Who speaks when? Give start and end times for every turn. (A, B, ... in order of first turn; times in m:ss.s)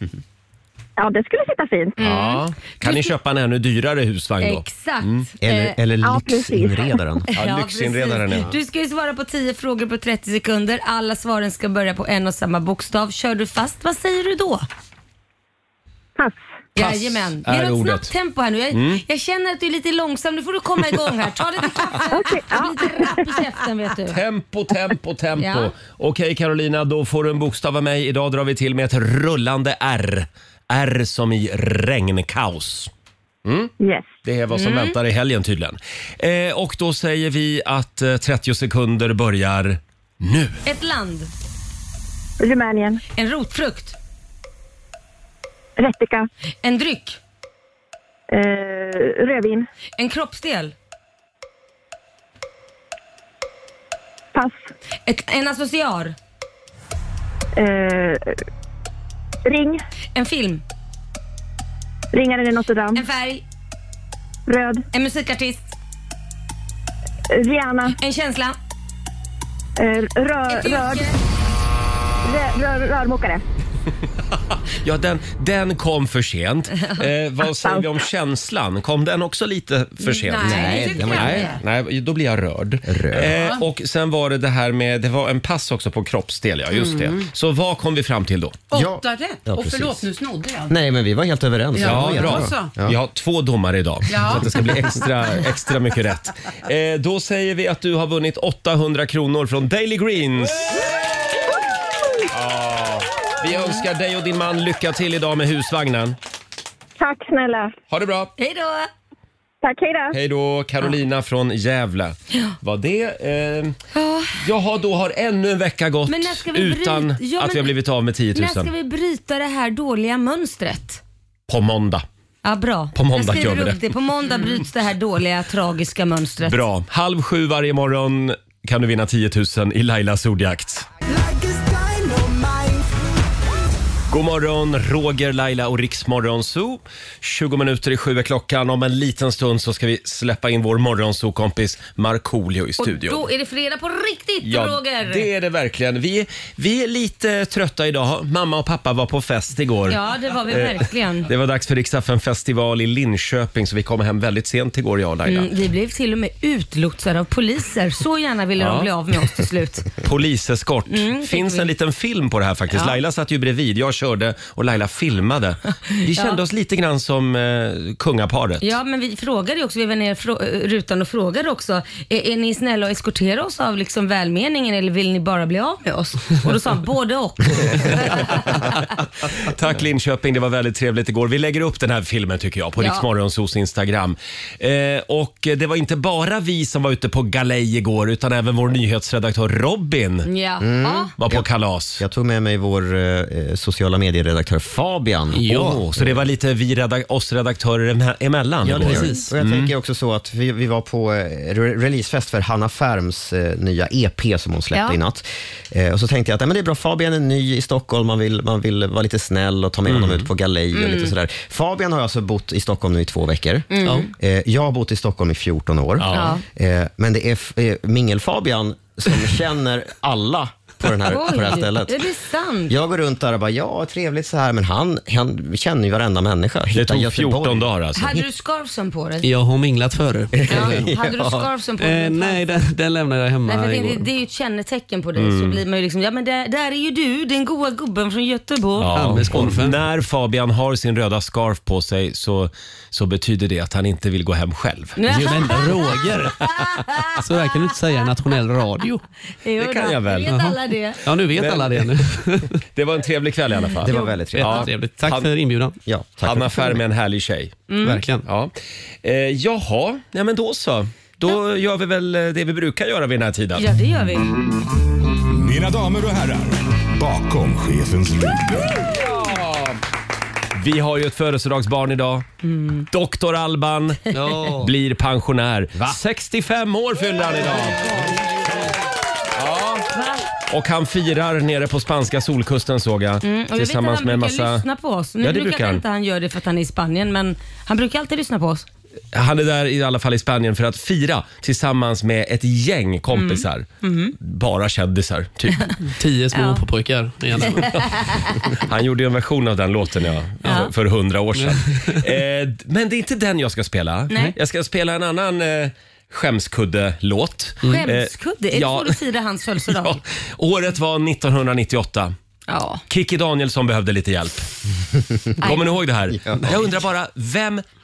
0:01.0-0:02.0 A
0:02.0-0:03.1 B
0:02.0-0:05.2 C
0:04.4-0:05.8 B
0:05.4-0:07.3 D
0:06.0-0:07.0 A
0:07.3-0:14.6 B
0:07.3-0:08.5 C
0:16.7-0:24.2 B
0:16.8-0:18.1 C
0:18.7-0:19.0 C
0:22.1-0:23.2 A
0:24.1-0:32.9 C
0:25.4-0:25.7 B
0:33.4-0:33.7 C
0:33.8-0:34.1 A
0:34.2-0:40.6 C
0:34.5-0:35.0 B
0:40.6-0:41.3 B
0:42.4-0:43.0 A
0:43.1-0:44.0 B
0:45.8-0:46.3 A
0:46.6-0:47.2 B
0:48.3-0:49.6 A
0:50.0-0:50.7 B
0:54.3-0:54.7 A
0:55.0-0:56.2 B
0:57.5-0:58.3 A
0:59.4-0:59.8 A
1:00.1-1:00.6 B
1:02.1-1:03.0 A
1:02.9-1:03.4 B
1:04.4-1:04.8 A
1:04.9-1:05.7 B
1:07.3-1:08.0 A
1:07.9-1:08.6 B
1:09.8-1:11.1 A
1:10.4-1:11.2 B
1:12.2-1:13.4 A
1:14.7-1:28.6 C
1:17.6-1:18.0 A
1:20.0-1:21.6 E
1:20.4-1:21.5 D
1:20.6-1:21.0 B
1:22.8-1:23.4 D
1:23.3-1:23.6 E
1:26.8-1:27.1 E
1:28.7-1:30.8 E
1:28.7-1:30.0 D
1:30.7-1:33.0 D
1:31.7-1:32.7 E
1:31.8-1:40.8 C
1:34.1-1:34.6 E
1:34.3-1:34.6 D
1:42.3-1:46.2 C
1:47.0-1:47.7 A
1:47.9-1:48.3 C
1:48.4-1:48.9 B
1:49.6-1:50.2 A
1:50.1-1:53.8 C
1:53.9-1:54.4 B
1:54.4-1:58.7 C
1:56.1-1:57.7 B
1:58.3-2:01.0 B
2:01.5-2:02.0 C
2:02.4-2:06.6 B
2:02.9-2:03.8 C
2:06.4-2:10.9 C
2:11.0-2:13.3 E
2:14.1-2:23.2 C
2:22.8-2:25.3 B
2:24.4-2:35.5 C
2:29.9-2:31.3 B
2:35.3-2:39.9 B
2:38.6-2:38.9 C
2:40.0-2:48.8 C
2:40.9-2:41.7 B
2:42.7-2:43.0 B
2:46.1-2:46.4 B
2:48.6-2:58.6 B
2:58.1-2:58.6 C
2:59.3-3:10.3 C
3:02.8-3:03.0 B
3:10.2-3:11.1 B
3:10.6-3:11.5 D
3:11.2-3:12.0 C
3:12.0-3:16.2 D
3:15.3-3:15.9 F
3:15.5-3:19.7 C
3:18.6-3:42.1 D
3:18.8-3:19.3 F
3:24.7-3:25.0 B
3:29.9-3:30.3 C
3:30.7-3:31.1 B
3:33.7-3:34.1 B
3:36.0-3:36.3 C
3:36.1-3:36.4 B
3:41.0-3:42.7 B
3:42.7-3:47.7 D
3:46.7-3:48.2 C
3:48.0-3:49.3 B
3:49.2-3:50.9 F
3:50.3-3:51.5 D
3:50.5-3:52.5 B
3:51.8-3:54.0 F
3:53.4-3:59.0 B
3:55.2-3:55.6 C
3:58.8-4:05.0 C
3:58.9-3:59.8 F
4:05.0-4:07.1 B
4:05.1-4:06.4 F
4:07.2-4:09.0 F
4:09.4-4:11.0 B
4:09.6-4:10.4 C
4:10.2-4:12.6 F
4:11.4-4:12.0 C
4:12.7-4:15.3 C
4:13.8-4:14.7 D
4:13.9-4:14.2 B
4:14.3-4:15.7 F
4:15.9-4:16.8 D
4:16.2-4:17.6 C
4:17.7-4:18.0 B
4:17.8-4:18.2 F
4:18.2-4:23.6 C
4:23.6-4:24.3 B
4:25.3-4:28.9 G
4:29.0-4:29.8 C
4:30.6-4:32.2 C
4:32.4-4:32.9 B
4:32.9-4:38.1 C
4:34.1-4:34.7 F
4:39.3-4:39.8 C
4:39.9-4:40.2 B
4:40.5-4:44.6 C
4:43.2-4:48.6 B
4:45.2-4:45.8 C
4:49.1-4:53.6 C
4:53.1-4:54.1 B
4:54.2-4:55.7 C
4:55.9-4:58.1 F
4:56.3-4:56.6 B
4:57.4-4:58.4 B
4:58.5-5:09.0 C
5:00.4-5:00.7 B
5:01.4-5:02.0 F
5:07.6-5:10.0 B
5:09.7-5:12.1 C
5:12.5-5:12.8 B
5:12.9-5:14.5 C
5:15.4-5:17.6 C
5:15.4-5:15.6 B
5:16.1-5:16.6 D